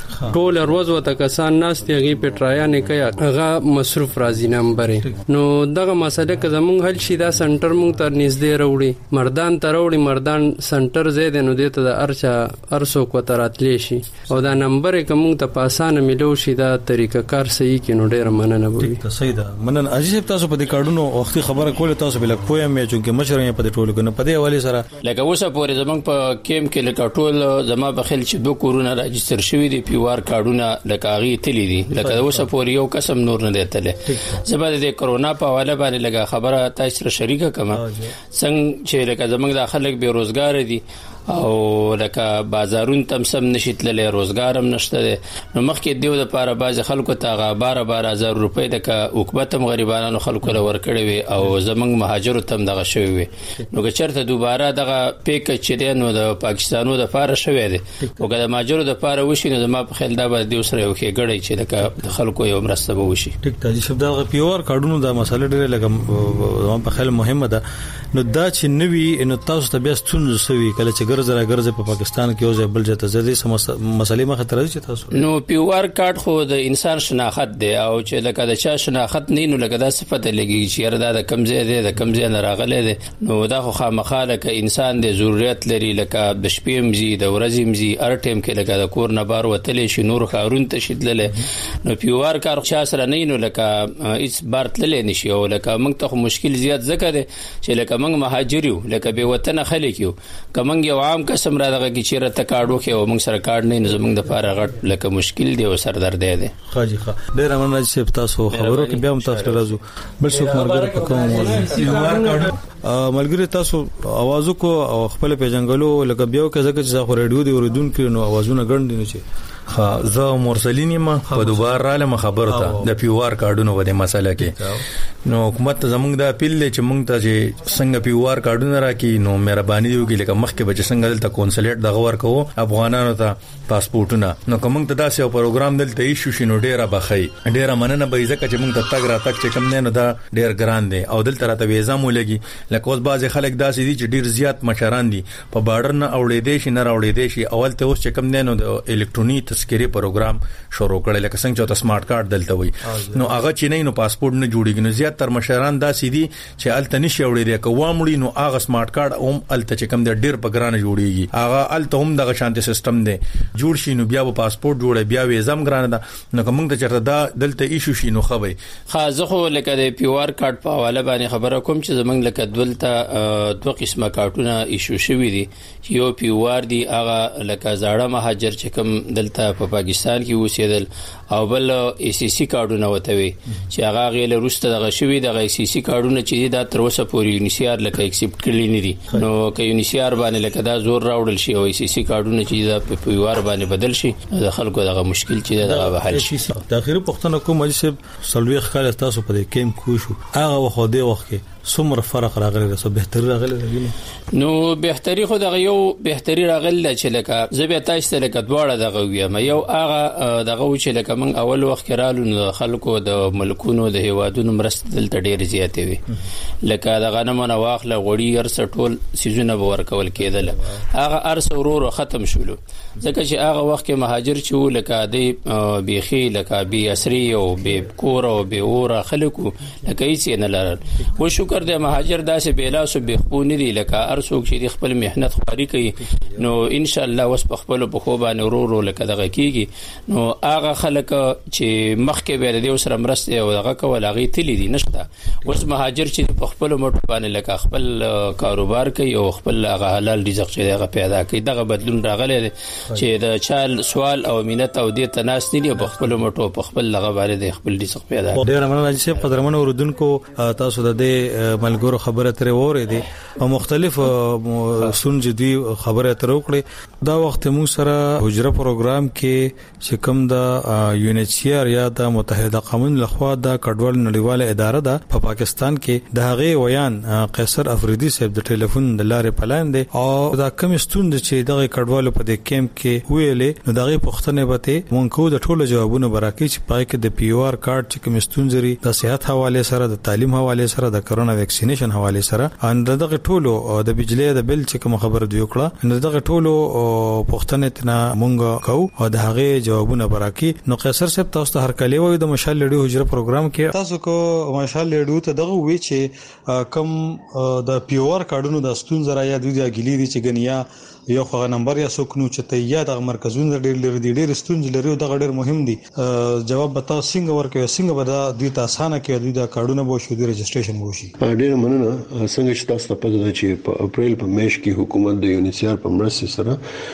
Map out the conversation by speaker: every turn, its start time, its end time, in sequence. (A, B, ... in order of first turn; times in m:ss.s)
0:00.3-0:19.0 A
0:14.3-0:14.6 B
0:18.8-0:24.9 B
0:25.0-0:37.8 C
0:31.9-0:32.5 B
0:34.1-0:34.4 B
0:37.7-0:38.1 B
0:38.4-1:03.4 C
0:58.0-0:58.3 B
1:01.8-1:02.2 B
1:03.4-1:07.6 B
1:08.1-1:15.1 B
1:15.1-1:31.4 C
1:31.9-1:46.5 C
1:46.7-1:59.2 B
1:48.5-1:49.6 C
1:51.7-1:52.5 A
1:51.8-1:52.3 D
1:59.7-2:04.6 D
2:01.3-2:01.7 B
2:02.5-2:02.9 B
2:04.4-2:04.8 B
2:05.3-2:48.6 D
2:32.9-2:33.3 B
2:48.9-3:16.3 C
3:15.6-3:23.9 B
3:24.4-3:36.0 C
3:36.7-4:18.4 C
3:56.1-3:56.4 B
4:15.8-4:16.2 B
4:18.4-5:21.1 B
5:21.2-5:26.6 E